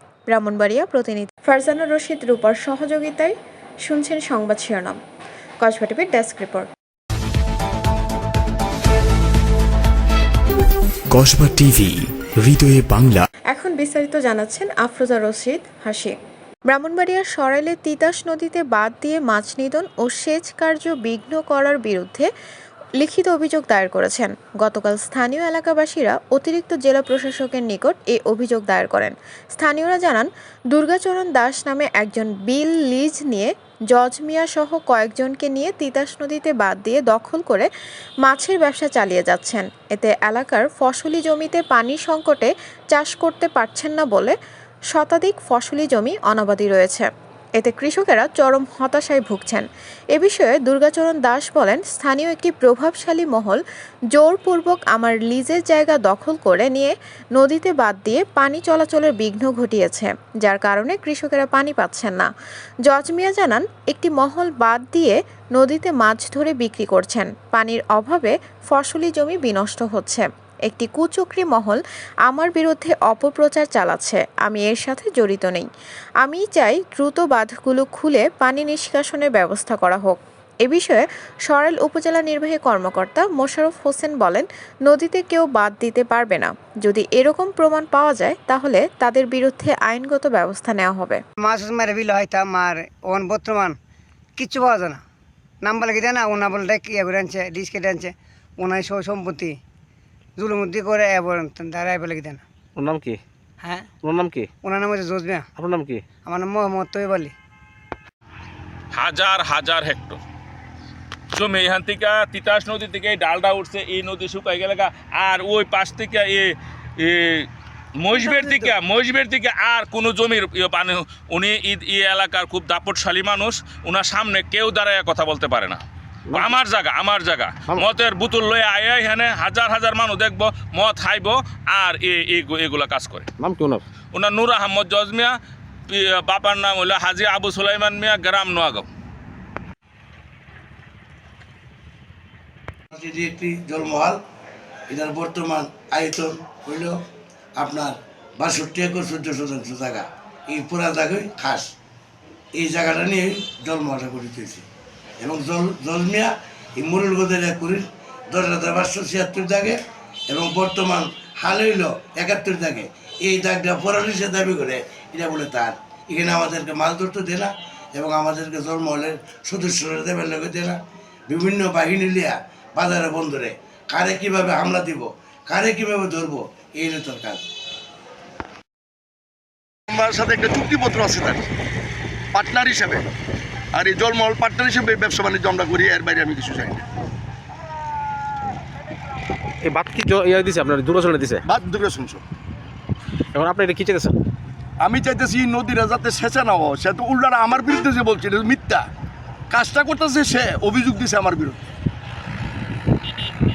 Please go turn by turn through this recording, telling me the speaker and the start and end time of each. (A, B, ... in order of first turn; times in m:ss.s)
0:00.3-0:03.4 A
0:03.9-0:05.0 A
0:05.6-0:06.7 A
0:11.1-0:13.2 B
0:13.5-0:16.2 A
0:16.7-0:22.3 A
0:23.0-0:37.7 A
0:38.2-0:44.4 A
0:44.9-0:53.6 A
0:54.1-1:02.3 A
1:02.9-1:15.7 A
1:16.2-1:31.2 A
1:31.4-1:33.8 C
1:34.4-1:35.0 C
1:35.6-1:39.6 C
1:40.4-1:42.4 C
1:42.8-1:43.2 D
1:43.6-1:43.9 C
1:44.0-1:44.5 D
1:44.6-1:45.4 C
1:45.6-1:46.0 D
1:46.3-1:47.3 C
1:48.9-1:50.2 E
1:51.3-1:57.5 E
1:58.0-2:05.8 E
1:58.4-1:58.7 D
2:06.3-2:06.6 D
2:06.3-2:13.3 E
2:13.4-2:13.8 D
2:14.1-2:15.4 E
2:15.9-2:18.9 E
2:22.9-2:24.2 F
2:24.9-2:27.0 F
2:27.6-2:31.7 F
2:32.6-2:34.6 F
2:35.2-2:50.8 F
2:51.3-2:57.4 F
2:59.9-3:01.4 G
3:02.4-3:03.0 G
3:03.8-3:06.8 G
3:09.6-3:11.4 D
3:11.5-3:12.2 G
3:13.4-3:14.2 D
3:14.8-3:18.8 G
3:19.5-3:21.6 G